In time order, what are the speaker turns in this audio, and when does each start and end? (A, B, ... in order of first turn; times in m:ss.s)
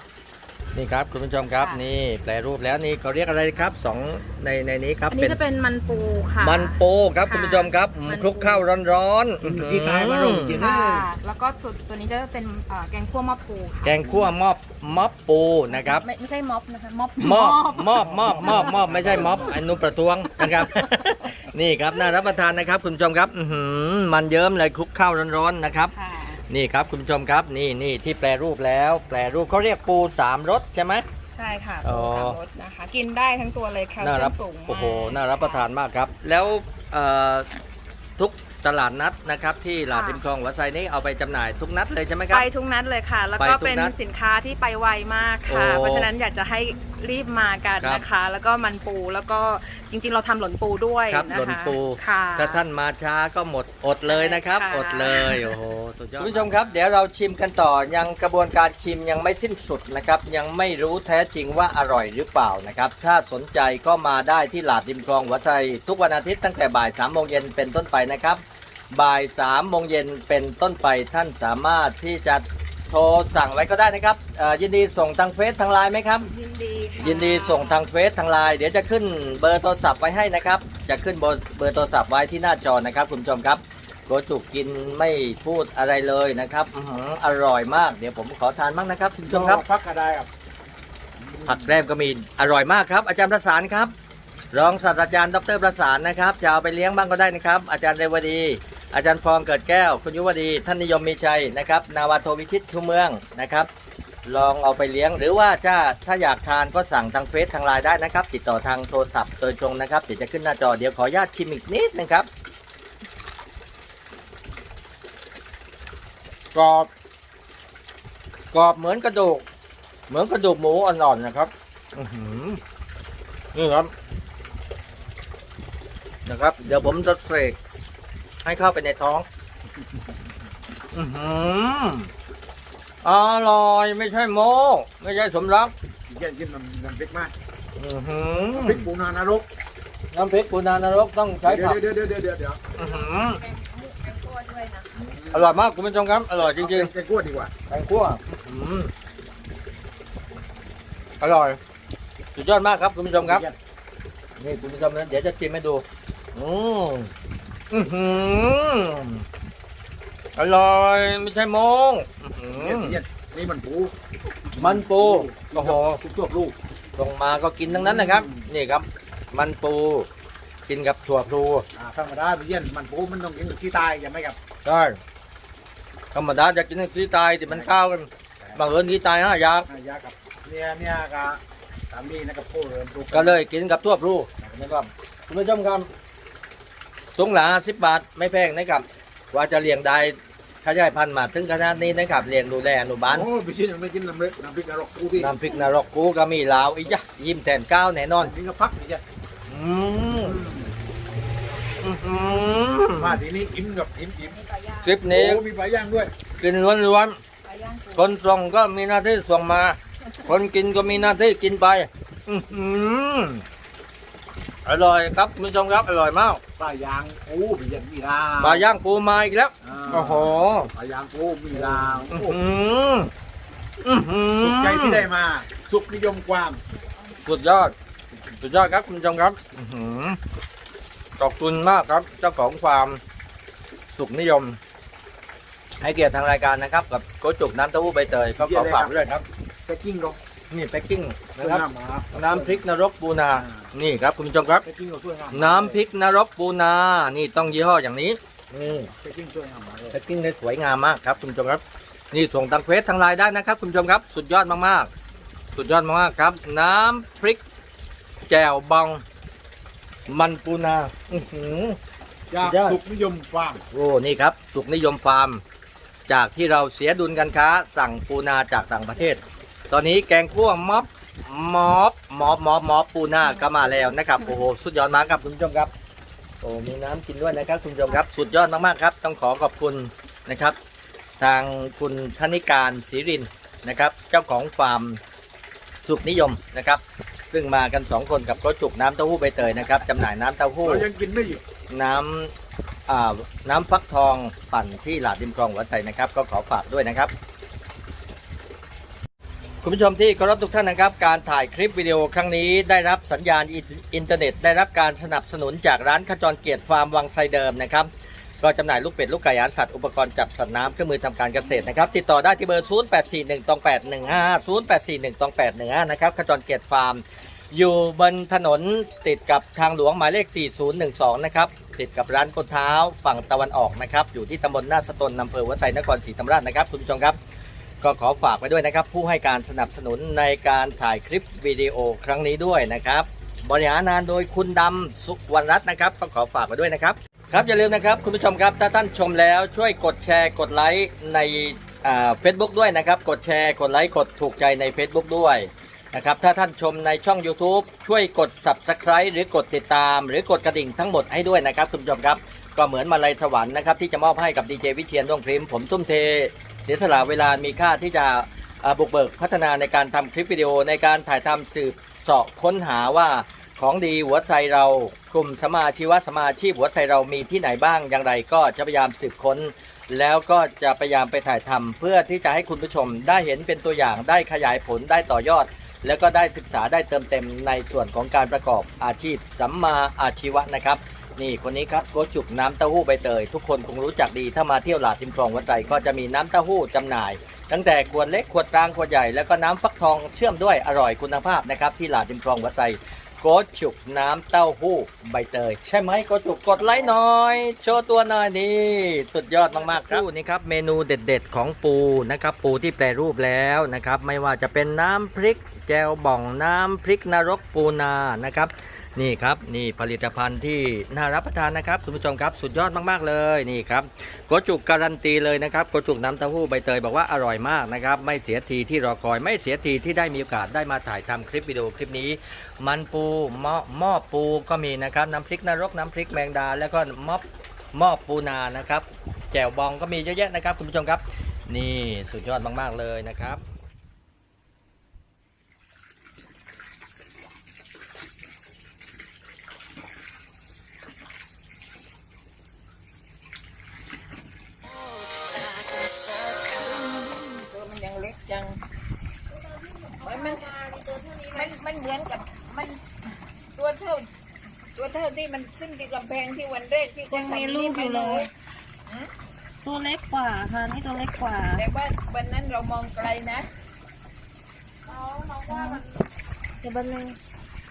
0:00.7-0:05.4 A
0:01.4-0:01.8 B
0:05.1-0:08.7 B
0:06.4-0:10.6 A
0:09.4-0:11.1 C
0:10.6-0:14.2 B
0:13.8-0:16.0 A
0:15.7-0:19.5 B
0:17.2-0:25.9 A
0:17.9-0:19.6 C
0:20.4-0:21.1 B
0:25.9-0:26.4 B
0:26.5-0:31.0 A
0:31.3-0:35.7 B
0:31.8-0:32.4 A
0:34.0-0:37.5 A
0:38.2-0:42.5 A
0:39.9-0:40.2 B
0:42.3-0:52.6 B
0:43.4-0:43.9 A
0:45.5-0:46.1 A
0:51.1-1:16.3 A
0:54.0-0:55.6 B
1:16.3-1:17.8 B
1:17.0-1:29.6 A
1:29.2-1:30.3 C
1:31.2-1:31.7 C
1:31.4-1:33.9 A
1:34.5-1:43.7 A
1:44.3-1:52.3 A
1:56.5-1:56.9 A
1:58.5-1:59.4 A
2:00.1-2:02.6 A
2:03.5-2:03.9 A
2:06.2-2:07.6 A
2:08.4-2:09.2 A
2:10.9-2:12.1 A
2:13.0-2:15.7 A
2:16.1-2:17.3 C
2:17.8-2:18.9 A
2:18.5-2:19.4 C
2:20.1-2:21.8 A
2:21.4-2:22.6 C
2:22.8-2:23.4 A
2:22.8-2:24.9 B
2:24.9-2:25.6 C
2:25.3-2:26.9 A
2:26.4-2:27.5 C
2:27.7-2:28.9 A
2:31.2-2:31.6 A
2:32.4-2:33.4 A
2:33.1-2:33.5 C
2:34.4-2:37.1 A
2:37.7-2:39.2 A
2:40.4-2:43.0 A
2:42.5-2:43.9 C
2:44.5-2:46.5 C
2:44.6-2:46.0 A
2:47.0-2:50.1 A
2:47.7-2:48.4 C
2:50.7-2:51.6 A
2:51.7-2:54.4 C
2:54.6-2:55.0 A
2:56.1-2:59.7 A
2:57.4-2:57.8 C
2:58.4-2:58.8 C
2:59.7-3:03.4 C
3:03.1-3:05.9 A
3:04.4-3:04.8 C
3:07.2-3:13.3 A
3:13.1-3:15.4 C
3:15.2-3:18.3 A
3:18.2-3:19.0 C
3:19.5-3:20.4 A
3:20.2-3:20.7 C
3:21.8-3:23.2 A
3:22.9-3:24.4 C
3:24.3-3:24.9 B
3:24.8-3:25.4 A
3:25.0-3:26.1 C
3:26.4-3:27.2 A
3:27.4-3:28.1 B
3:27.9-3:33.4 A
3:34.6-3:36.4 A
3:36.6-3:38.7 C
3:38.4-3:40.7 A
3:39.6-3:42.4 C
3:41.6-3:43.1 A
3:43.8-3:45.1 A
3:44.4-3:46.6 C
3:46.8-3:47.2 B
3:47.2-3:47.7 A
3:48.4-3:50.2 A
3:51.2-3:53.0 A
3:54.0-3:54.6 A
3:55.8-3:59.2 A
3:58.4-4:00.2 C
4:00.5-4:04.6 A
4:01.4-4:02.6 C
4:03.3-4:03.7 C
4:04.6-4:05.8 C
4:05.3-4:08.9 A
4:08.6-4:10.0 C
4:09.9-4:14.9 A
4:15.6-4:17.4 A
4:18.3-4:19.0 A
4:20.1-4:21.8 A
4:22.3-4:23.6 C
4:22.4-4:22.8 A
4:23.7-4:25.4 A
4:26.1-4:35.7 A
4:33.4-4:33.8 B
4:36.4-4:40.6 A
4:41.2-4:45.0 A
4:45.8-4:50.9 A
4:50.6-4:51.4 C
4:51.7-4:52.3 A
4:52.9-4:57.1 A
4:59.6-5:07.9 A
5:08.4-5:27.2 A
5:27.8-7:13.4 A
6:36.6-6:36.9 C
6:39.7-6:40.0 C
7:26.4-7:28.6 D
7:29.8-7:31.5 B
7:30.0-7:32.8 D
7:33.6-7:34.0 D
7:34.8-7:38.3 D
7:37.1-7:38.2 E
7:39.6-7:41.6 E
7:41.3-7:43.4 D
7:44.9-7:45.8 B
7:45.0-7:45.8 D
7:45.5-7:45.8 E
7:46.6-7:47.2 E